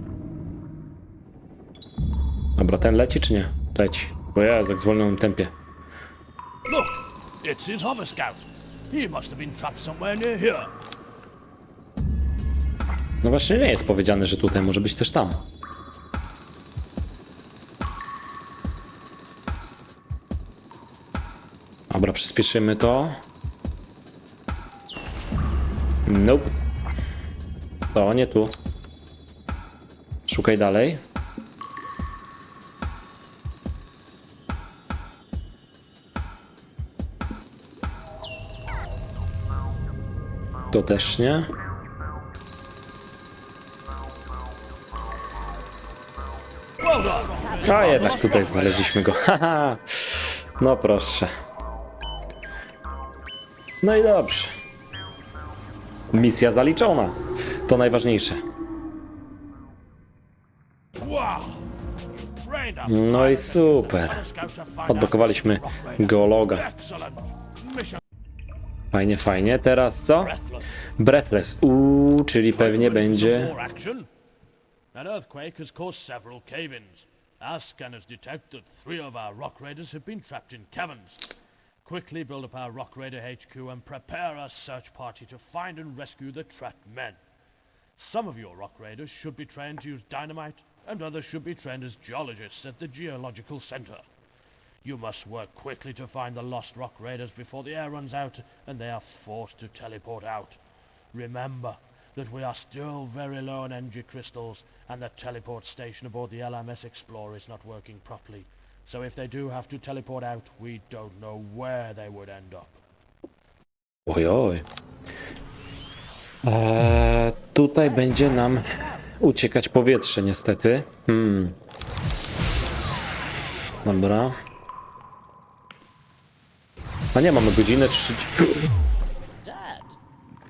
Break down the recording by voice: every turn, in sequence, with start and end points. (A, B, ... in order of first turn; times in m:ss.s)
0:02.6-0:05.5 A
0:06.7-0:10.7 B
0:13.2-0:15.4 A
0:21.9-0:23.2 A
0:26.1-0:26.6 A
0:27.9-0:28.5 A
0:30.3-0:31.0 A
0:40.7-0:41.5 A
0:46.8-0:49.1 B
0:47.2-0:48.8 C
0:47.6-0:51.3 A
0:53.8-0:54.5 A
0:56.1-0:58.4 A
1:01.0-1:01.6 B
1:02.3-1:08.0 B
1:02.9-1:04.2 A
1:04.9-1:06.7 A
1:08.9-1:10.4 A
1:10.2-1:10.7 B
1:11.0-1:13.5 A
1:12.5-1:14.1 B
1:14.9-1:21.3 B
1:21.8-1:27.2 B
1:28.0-1:34.0 B
1:34.8-1:40.6 B
1:41.1-1:52.8 B
1:54.1-1:54.6 A
1:56.4-2:01.6 A
1:58.1-1:58.8 C
2:03.8-2:04.4 A
2:07.2-2:08.7 A
2:09.4-2:10.0 C